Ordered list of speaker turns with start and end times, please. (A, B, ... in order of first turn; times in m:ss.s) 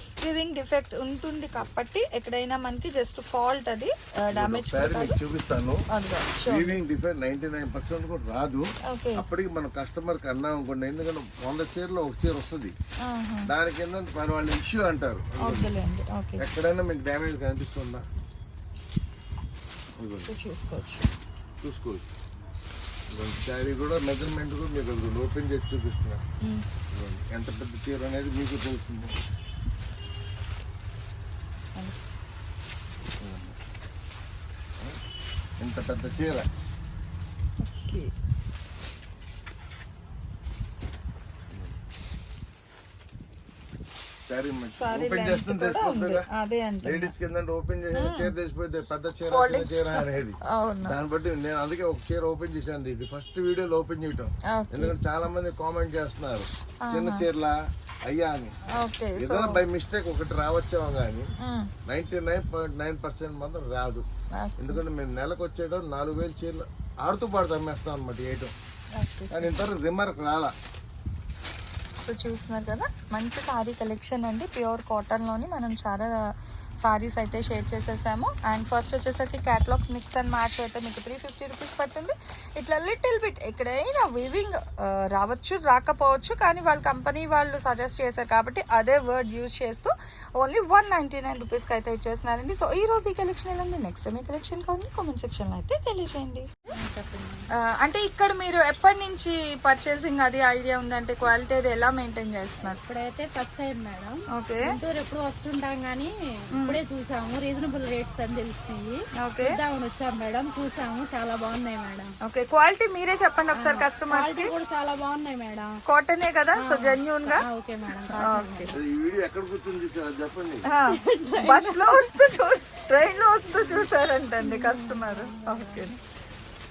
0:00.2-0:05.2 A
0:04.3-0:05.8 B
0:05.9-0:06.8 A
0:06.4-0:12.7 B
0:08.9-0:09.2 A
0:13.0-0:13.5 A
0:13.4-0:15.7 B
0:15.4-0:16.4 A
0:16.4-0:18.0 B
0:20.0-0:20.3 B
0:20.3-0:21.1 A
0:21.6-0:22.0 B
0:23.1-0:26.2 B
0:26.9-0:29.2 B
0:33.2-0:33.6 B
0:35.6-0:36.5 B
0:37.6-0:38.1 A
0:44.3-0:46.2 B
0:44.6-0:47.1 A
0:46.8-0:57.5 B
0:48.0-0:48.3 A
0:49.2-0:51.0 A
0:54.5-0:54.9 A
0:56.8-0:57.2 A
0:58.0-0:58.6 B
0:58.8-0:59.6 A
0:59.2-1:01.3 B
1:01.4-1:01.7 A
1:01.9-1:04.0 B
1:04.4-1:04.8 A
1:04.6-1:08.5 B
1:09.0-1:09.5 A
1:09.3-1:10.5 B
1:12.0-1:16.2 A
1:16.8-1:36.5 A
1:36.7-1:37.5 C
1:37.6-1:42.8 A
1:42.6-1:52.1 C
1:44.3-1:44.7 A
1:46.5-1:46.8 A
1:49.2-1:49.5 A
1:52.2-1:54.5 A
1:53.5-1:55.7 C
1:55.9-1:57.4 A
1:56.6-1:58.7 C
1:58.1-1:58.7 A
1:58.7-2:00.6 B
2:00.7-2:06.0 A
2:00.9-2:02.2 C
2:04.4-2:05.9 C